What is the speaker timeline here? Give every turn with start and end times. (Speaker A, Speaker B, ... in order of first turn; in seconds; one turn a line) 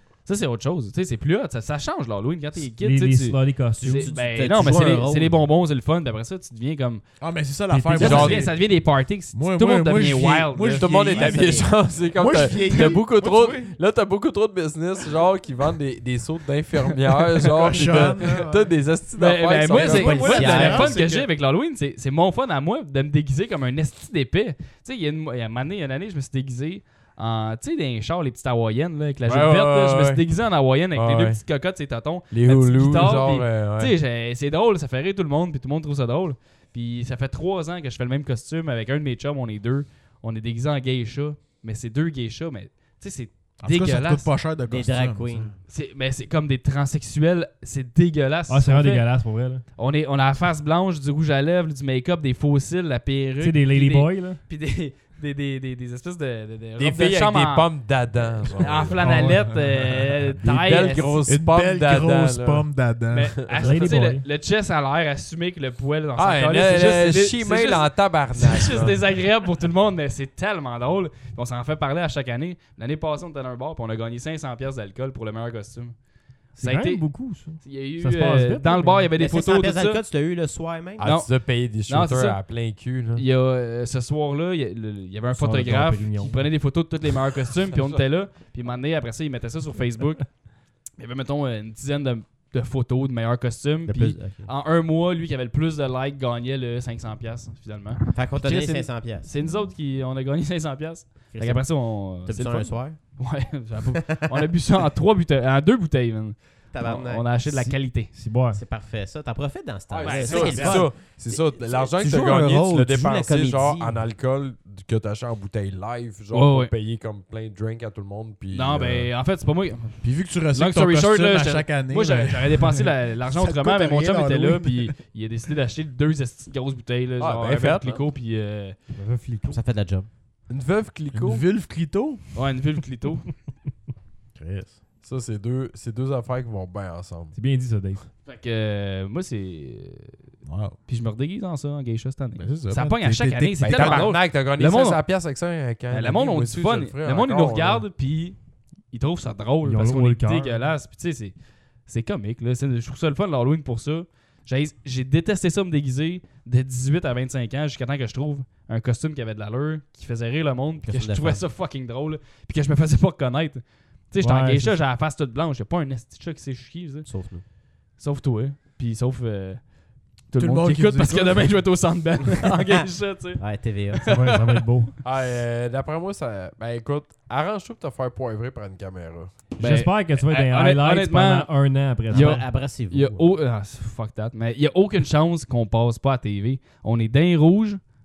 Speaker A: 0.2-7.0
Speaker B: 2.8-4.1
Speaker C: 3.8-5.4
Speaker D: 7.2-8.6
Speaker B: 7.7-8.4
Speaker A: 8.0-11.6
Speaker E: 8.0-8.5
Speaker D: 9.3-13.7
Speaker E: 10.8-21.3
Speaker C: 11.2-11.7
Speaker D: 17.6-18.7
Speaker A: 17.8-18.4
Speaker A: 19.1-44.3
Speaker D: 19.7-21.0
Speaker C: 19.8-20.9
Speaker E: 29.2-30.2
Speaker E: 30.9-31.4
Speaker E: 32.3-33.9
Speaker D: 43.6-45.5
Speaker C: 44.7-45.6
Speaker A: 45.7-49.1
Speaker B: 48.5-49.6
Speaker A: 49.7-57.7
Speaker B: 53.4-54.4
Speaker E: 56.8-59.0
Speaker A: 58.6-61.2
Speaker B: 59.0-59.6
Speaker E: 60.4-62.6
Speaker D: 61.3-63.4
Speaker A: 63.1-76.0
Speaker E: 63.5-63.8
Speaker B: 63.6-64.2
Speaker E: 66.2-69.0
Speaker A: 76.5-80.0
Speaker B: 76.6-79.1
Speaker C: 79.2-81.1
Speaker E: 81.0-83.2
Speaker A: 81.0-82.5
Speaker A: 83.1-90.4
Speaker B: 85.3-86.5
Speaker A: 91.0-108.1
Speaker C: 93.9-94.5
Speaker C: 98.1-99.3
Speaker C: 101.3-103.0
Speaker C: 104.1-104.5
Speaker C: 106.7-107.8
Speaker B: 108.1-108.6
Speaker C: 108.5-114.0
Speaker E: 109.9-119.1
Speaker A: 110.0-110.9
Speaker A: 116.3-116.7
Speaker A: 118.5-128.8
Speaker D: 120.0-124.9
Speaker E: 127.2-128.0
Speaker B: 128.9-129.6
Speaker C: 129.5-130.1
Speaker E: 130.5-131.4
Speaker D: 131.1-132.2
Speaker A: 132.3-133.3
Speaker D: 134.3-134.8
Speaker E: 135.0-137.3
Speaker B: 137.3-138.0
Speaker A: 138.2-140.2
Speaker D: 140.4-140.8
Speaker A: 140.9-145.0
Speaker D: 142.4-144.1
Speaker E: 143.6-147.8
Speaker A: 145.9-148.4
Speaker A: 148.9-151.3
Speaker B: 149.6-150.7
Speaker A: 151.8-167.1
Speaker C: 160.8-161.4
Speaker B: 164.2-164.8
Speaker C: 167.0-167.4
Speaker A: 168.0-174.7
Speaker D: 170.4-171.6
Speaker C: 173.4-174.1
Speaker B: 174.1-174.9
Speaker E: 175.0-179.3
Speaker B: 179.6-182.5
Speaker A: 179.6-187.8
Speaker C: 182.1-183.3